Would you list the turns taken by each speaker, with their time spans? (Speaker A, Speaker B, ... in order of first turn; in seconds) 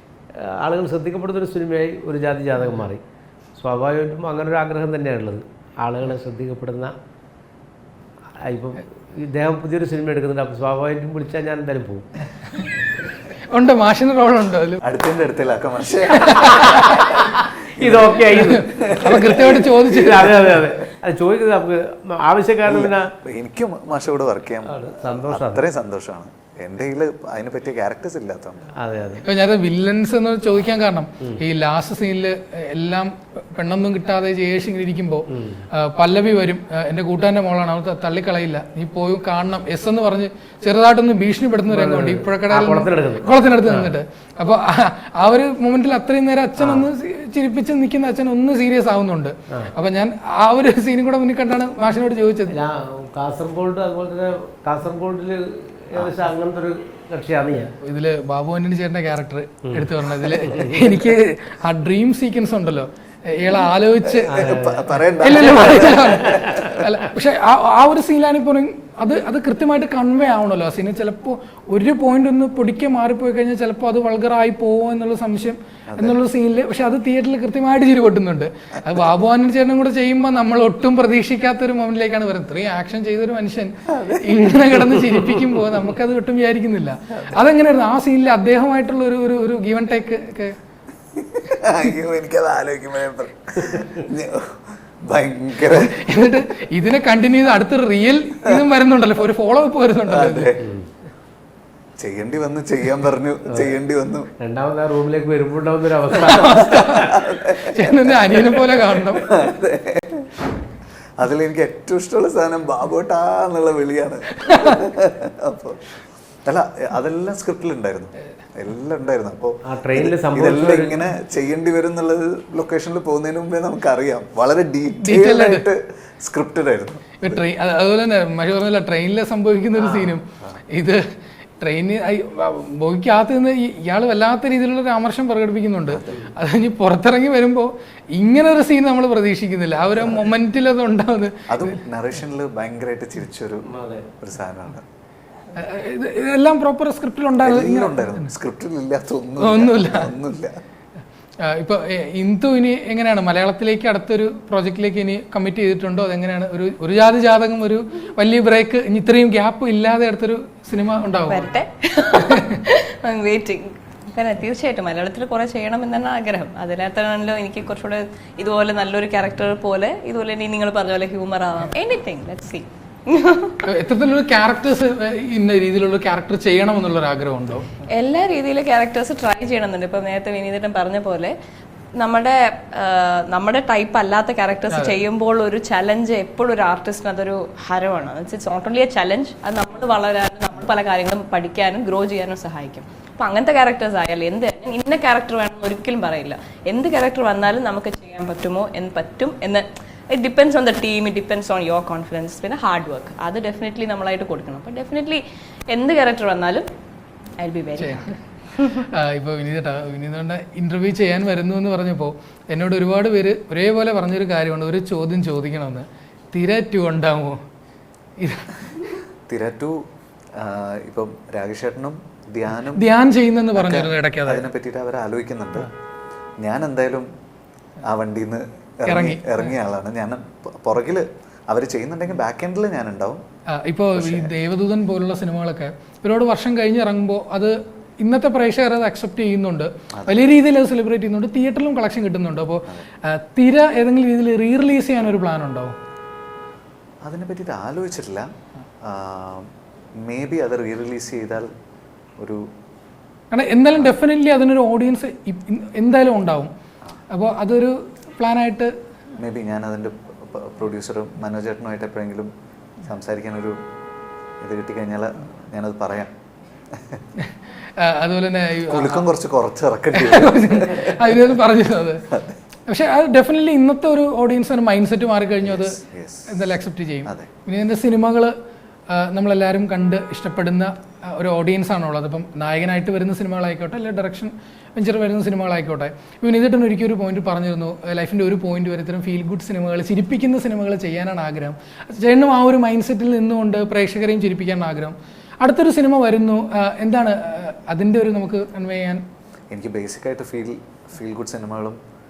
Speaker A: 0.3-3.0, 3.6-6.9, 8.4-12.1, 16.6-23.1, 24.6-25.7, 28.7-29.2, 35.3-35.6, 41.7-43.9, 46.6-46.9, 52.5-57.7, 59.6-60.9, 64.3-66.8, 100.6-100.9, 104.4-106.9, 119.6-121.0, 143.7-144.1
Speaker B: 13.5-14.8, 16.2-16.8, 18.3-20.6, 29.2-52.5, 57.8-64.6, 65.1-90.6, 95.7-100.5, 106.2-109.3, 114.5-114.8, 125.0-125.7, 127.2-131.1, 131.6-141.7, 145.5-148.3, 149.4-150.1, 151.4-161.5, 162.2-162.5, 173.7-177.7, 207.8-208.2, 208.9-217.4, 218.2-218.9, 222.7-224.4, 228.9-229.4, 233.5-245.7, 253.3-256.5, 257.1-258.7, 267.2-269.0, 269.9-272.1, 272.7-278.3, 278.9-299.0
Speaker C: 14.8-20.7, 22.6-28.7, 55.9-56.2, 64.0-66.8, 75.9-76.2, 83.9-85.2, 87.1-87.5, 91.1-96.3, 100.1-100.6, 102.0-104.3, 106.3-110.3, 111.2-127.4, 129.8-130.6, 135.9-136.2, 141.5-143.7, 144.2-144.8, 147.4-150.6, 219.3-222.8, 223.5-225.7, 226.4-227.1, 227.8-233.2, 233.9-234.3, 239.9-240.3, 247.0-251.5, 252.2-252.5, 259.2-263.6, 264.4-266.1, 266.7-267.0, 268.6-271.2, 272.1-272.4, 275.4-276.4, 277.0-277.3, 299.5-301.8
Speaker D: 161.3-173.7, 177.9-181.3, 182.0-206.7, 207.4-208.9